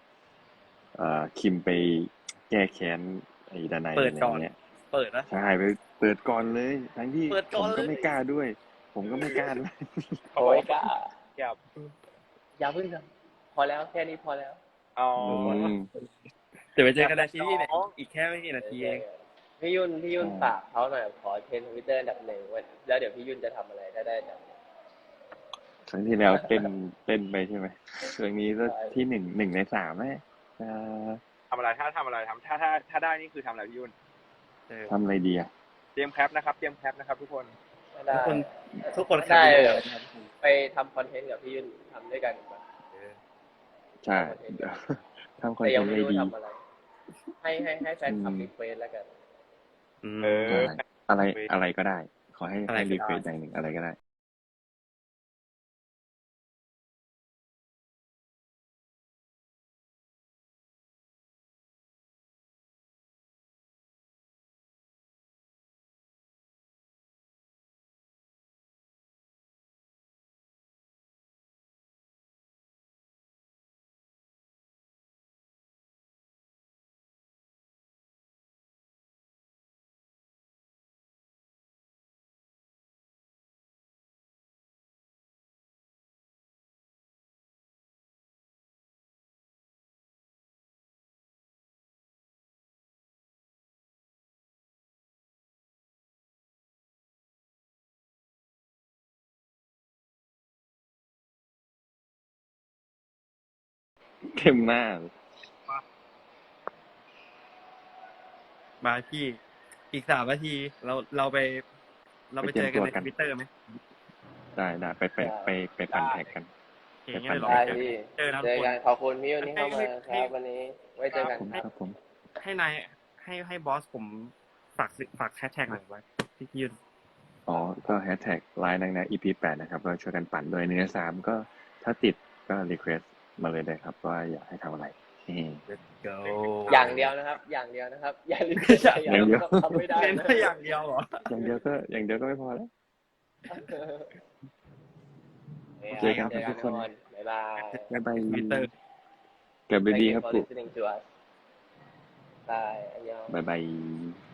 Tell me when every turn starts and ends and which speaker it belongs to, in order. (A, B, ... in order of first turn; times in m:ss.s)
0:00.9-0:04.6 A
0:03.9-0:05.3 B
0:05.3-0:10.2 A
0:07.3-0:08.1 B
0:09.0-0:09.5 C
0:10.3-0:10.7 C
0:10.4-0:11.1 D
0:12.6-0:14.6 D
0:15.0-0:15.7 C
0:15.2-0:15.9 A
0:15.2-0:15.7 B
0:16.7-0:19.0 B
0:17.0-0:17.9 C
0:18.6-0:24.6 D
0:20.2-0:20.6 A
0:25.9-0:31.2 A
0:28.6-0:29.0 D
0:31.5-0:33.9 C
0:34.7-0:34.9 B
0:34.9-0:35.5 A
0:36.0-0:37.5 C
0:37.9-0:39.9 D
0:38.1-0:40.3 B
0:40.4-0:42.6 D
0:42.9-0:43.2 B
0:44.0-0:46.3 A
0:44.1-0:44.8 D
0:45.6-0:46.6 D
0:47.4-0:49.1 D
0:48.0-0:48.5 A
0:50.0-0:50.7 B
0:50.2-0:50.8 C
0:50.5-0:54.0 A
0:52.7-0:53.2 B
1:44.2-1:45.1 A
1:48.8-1:49.4 B
1:49.9-1:51.6 B
1:52.3-1:53.5 B
1:52.4-1:53.1 A
1:54.6-1:56.5 A
1:55.2-1:55.5 D
1:55.9-1:56.3 C
1:57.0-1:58.8 B
1:57.1-1:57.9 A
1:57.4-2:01.6 D
1:59.4-2:00.3 B
2:01.2-2:02.0 A
2:02.4-2:06.8 B
2:07.5-2:15.6 A
2:15.7-2:17.1 B
2:16.2-2:16.9 C
2:16.7-2:20.6 D
2:18.6-2:19.3 B
2:19.0-2:20.0 A
2:19.9-2:21.2 B
2:21.3-2:22.7 A
2:23.5-2:24.1 D
2:25.8-2:27.9 D
2:25.9-2:26.6 B
2:25.9-2:26.9 A
2:27.9-2:28.7 A
2:28.2-2:28.7 B
2:29.7-2:30.5 A
2:29.9-2:31.1 D
2:32.4-2:33.4 D
2:33.3-2:34.2 A